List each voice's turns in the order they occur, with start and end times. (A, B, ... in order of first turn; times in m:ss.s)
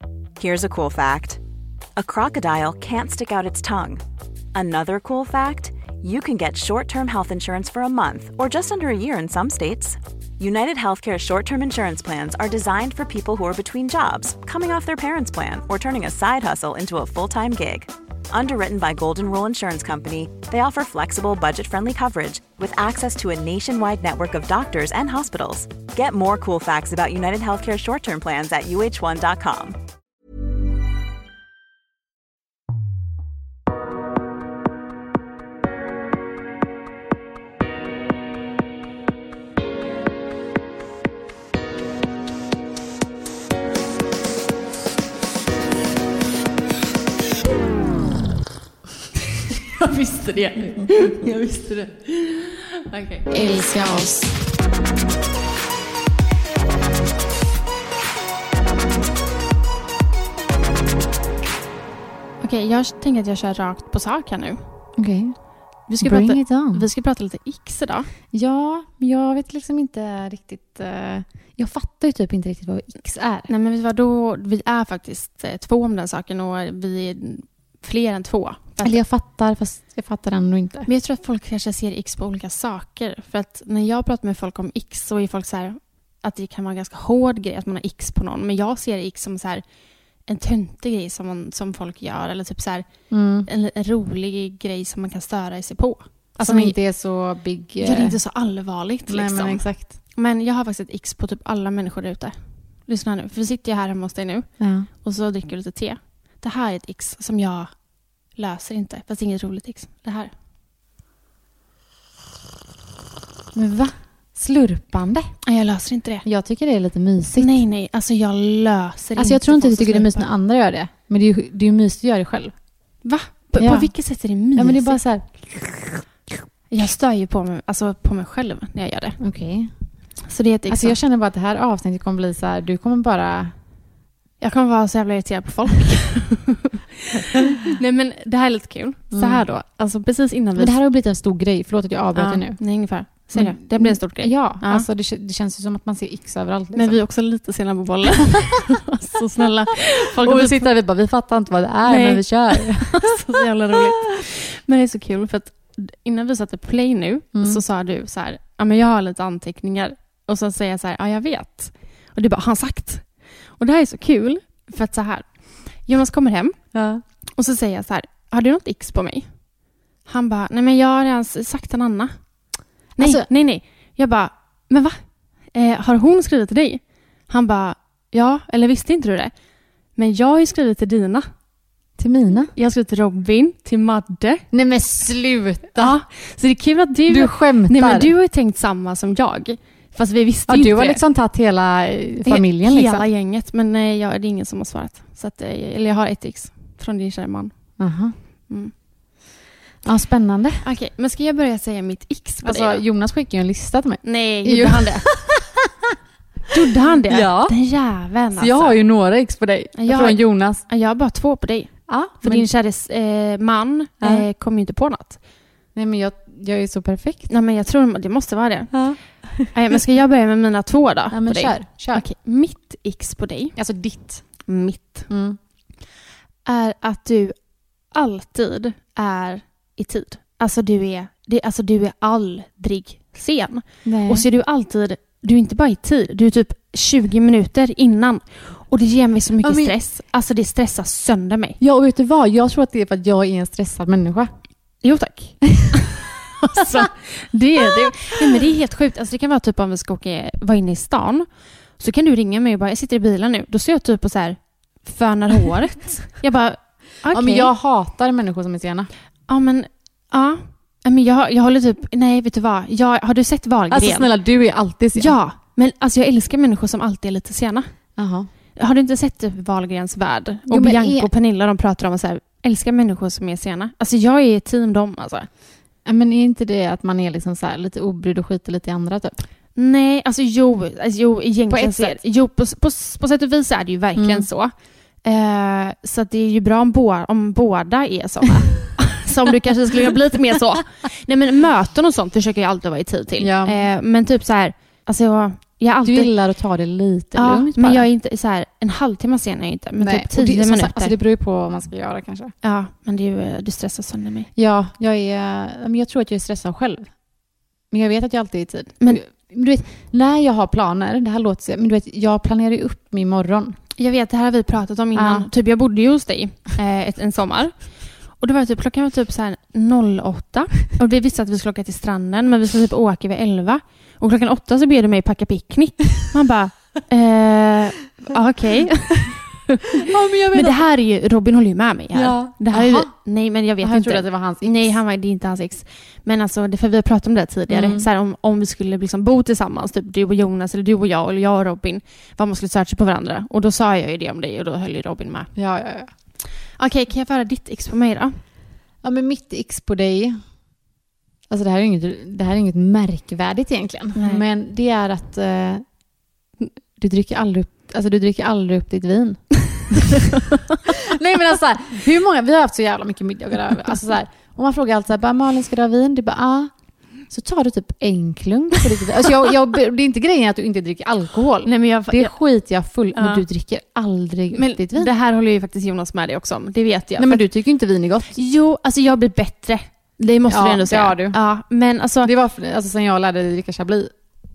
0:00.4-0:01.4 A
0:02.0-0:29.8 A
0:49.8-0:53.8 B
0:53.3-0:54.3 C
1:02.4-1:04.6 B
1:05.0-1:05.4 C
1:05.9-1:08.1 B
1:06.0-1:06.8 C
1:08.3-1:13.5 C
1:13.5-1:19.0 B
1:18.8-1:20.9 C
1:20.9-1:29.6 B
1:30.3-1:32.9 B
1:33.1-1:33.5 C
1:33.4-1:36.8 B
1:36.4-1:38.2 C
1:37.8-1:42.4 B
1:39.1-1:39.9 C
1:42.9-1:47.7 B
1:44.6-1:44.9 C
1:48.3-1:50.3 B
1:53.5-1:55.3 C
1:55.4-1:56.2 B
1:56.2-1:57.6 C
1:57.4-2:00.2 B
1:59.2-2:02.5 C
2:03.0-2:05.0 B
2:03.6-2:03.9 C
2:04.5-2:06.0 C
2:06.7-2:09.2 B
2:09.2-2:09.7 C
2:10.3-2:11.0 B
2:10.7-2:13.5 C
2:14.4-2:20.7 B
2:19.1-2:19.4 C
2:20.6-2:22.6 C
2:22.1-2:24.9 B
2:23.3-2:27.0 C
2:26.8-2:30.7 B
2:30.2-2:33.0 C
2:31.8-2:43.1 B
2:37.3-2:37.6 C
2:43.6-2:46.6 B
2:46.7-2:47.0 C
2:47.4-2:49.3 B
2:50.1-2:52.1 B
2:53.0-2:55.0 B
2:53.0-2:53.3 C
2:55.5-2:59.3 B
3:00.0-3:01.3 B
3:02.0-3:02.5 C
3:02.6-3:04.4 B
3:04.5-3:05.9 C
3:05.8-3:11.0 B
3:07.1-3:08.1 C
3:10.5-3:13.0 C
3:12.2-3:17.7 B
3:17.8-3:18.1 C
3:19.8-3:20.6 C
3:20.6-3:22.8 B
3:22.4-3:25.7 C
3:24.0-3:25.1 B
3:26.5-3:28.8 B
3:27.1-3:27.5 C
3:28.4-3:30.6 C
3:29.8-3:35.2 B
3:31.9-3:32.5 C
3:34.0-3:34.2 C
3:35.7-3:37.3 C
3:37.3-3:43.6 B
3:38.7-3:39.5 C
3:41.1-3:42.0 C
3:43.6-3:44.2 C
3:44.5-3:45.1 B
3:45.1-3:45.4 C
3:46.4-3:47.4 B
3:47.9-4:01.6 B
3:53.8-3:54.2 C
3:59.4-3:59.7 C
4:01.6-4:04.3 C
4:04.8-4:11.3 B
4:11.8-4:17.5 B
4:17.1-4:18.9 C
4:19.3-4:24.1 B
4:23.7-4:25.1 C
4:25.0-4:27.7 B
4:28.0-4:28.3 C
4:28.6-4:35.3 B
4:30.5-4:31.1 C
4:35.8-4:39.2 C
4:39.6-4:44.5 B
4:41.5-4:42.0 C
4:44.0-4:44.3 C
4:45.0-4:56.1 B
4:53.2-4:53.7 C
4:55.8-4:57.8 C
4:57.2-5:01.0 B
4:59.8-5:02.3 C
5:02.4-5:04.3 B
5:04.4-5:06.9 C
5:07.7-5:13.6 C
5:13.8-5:45.3 B
5:14.9-5:15.3 C
5:29.8-5:30.6 C
5:31.9-5:32.9 C
5:33.6-5:34.8 C
5:37.5-5:37.9 C
5:45.4-5:45.9 C
5:46.6-5:48.2 B
5:48.8-5:50.2 C
5:51.3-5:55.6 C
5:54.0-5:54.2 B
5:56.7-6:00.1 C
6:00.7-6:06.5 C
6:07.1-6:14.9 C
6:11.4-6:12.2 B
6:12.9-6:13.2 B
6:14.4-6:17.2 B
6:17.0-6:18.2 C
6:18.1-6:22.1 B
6:20.3-6:21.2 C
6:22.0-6:23.9 C